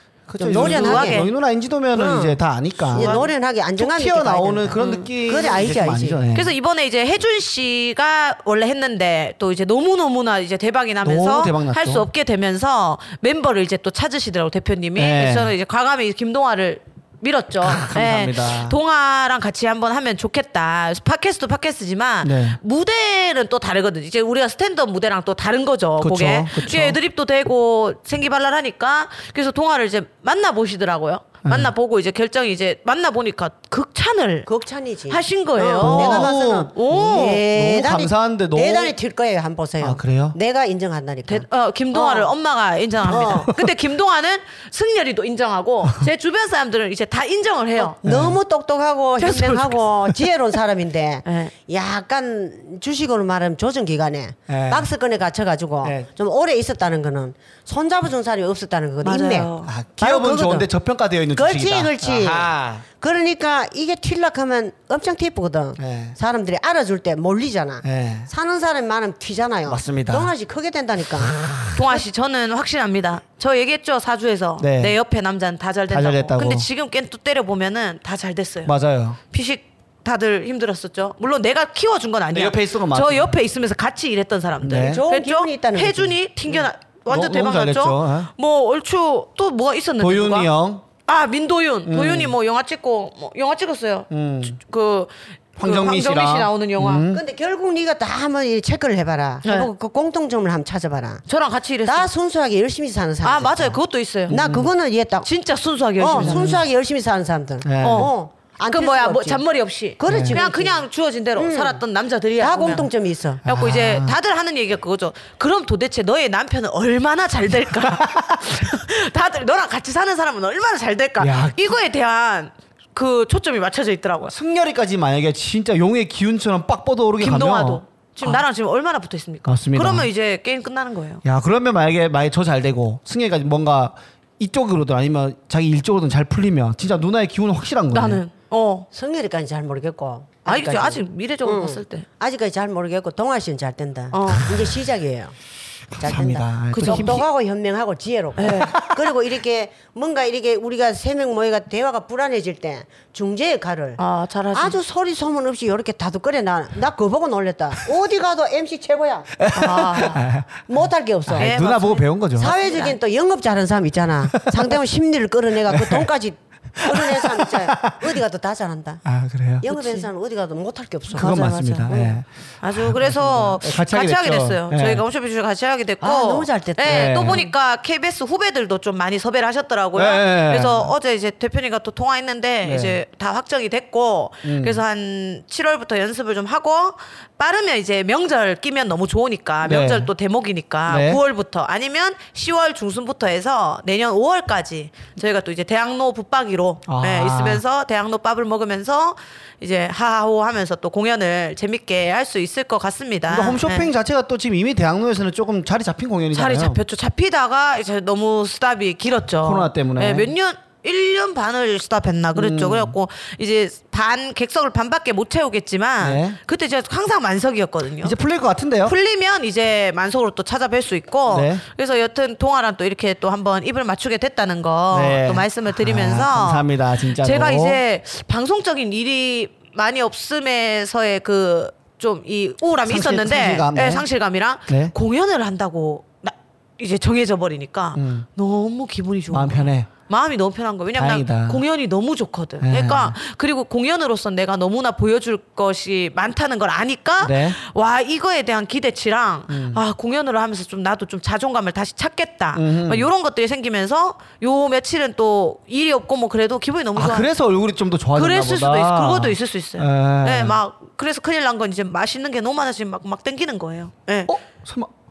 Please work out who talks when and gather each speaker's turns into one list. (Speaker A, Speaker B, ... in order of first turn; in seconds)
Speaker A: 0.3-3.2, 3.8-6.5, 11.1-12.1, 15.0-15.5, 17.6-18.8, 22.2-22.6, 26.0-27.0, 31.4-31.7, 35.8-39.0, 39.8-40.4, 48.0-48.4, 54.5-54.9, 59.7-62.9, 65.8-66.2, 67.8-68.3, 69.7-70.3, 74.6-75.0, 75.9-76.7, 78.7-79.2, 82.3-83.4, 84.6-85.0, 86.5-88.3, 90.0-90.8, 91.9-92.4, 94.1-94.6, 95.6-97.2, 104.3-104.7, 106.2-106.6, 107.6-108.1, 110.1-110.4, 113.5-114.2, 118.0-118.4, 121.2-121.8, 124.3-128.4, 129.5-130.1, 131.2-138.2, 146.0-147.3, 148.4-148.7, 159.4-160.7, 161.3-162.6, 164.4-164.8, 165.7-166.1, 166.8-168.2, 169.1-169.7, 171.1-175.0, 176.9-177.4, 179.9-180.9, 182.6-183.0, 184.4-184.8, 189.6-190.1, 190.9-191.2, 196.9-197.6, 203.3-206.8, 209.4-210.3, 212.3-213.0, 216.0-216.4, 218.0-218.9, 221.3-221.6, 224.9-227.8, 232.9-234.1, 234.7-234.9, 237.9-238.3, 239.3-239.9, 240.9-241.6, 242.6-243.2, 247.2-247.6, 249.5-249.8, 252.6-253.1, 257.0-260.6, 264.3-264.9
Speaker B: 0.4-1.3, 1.9-6.2, 34.5-42.3, 43.1-43.6, 47.8-60.7, 61.4-71.3, 84.8-86.2, 97.1-101.2, 101.9-105.3, 106.0-110.8, 111.4-111.8, 112.4-113.4, 138.9-145.3, 146.0-154.0, 154.5-160.2, 160.7-161.5, 162.4-169.0, 169.6-172.1, 176.0-177.5
Speaker C: 0.5-1.3, 2.9-3.3, 4.8-5.1, 6.3-34.5, 35.1-37.4, 41.3-48.0, 49.2-49.8, 51.3-51.5, 59.0-59.7, 71.7-78.7, 79.3-90.5, 91.1-97.1, 99.4-99.7, 101.3-102.1, 103.2-104.3, 105.2-106.6, 107.8-108.1, 108.7-112.9, 113.5-124.3, 127.2-131.2, 137.9-138.9, 140.5-142.1, 144.1-144.5, 146.7-147.2, 148.4-148.8, 154.0-154.8, 159.5-160.2, 161.4-163.0, 169.7-170.1, 171.1-203.9, 206.3-218.2, 218.8-257.3, 258.1-264.3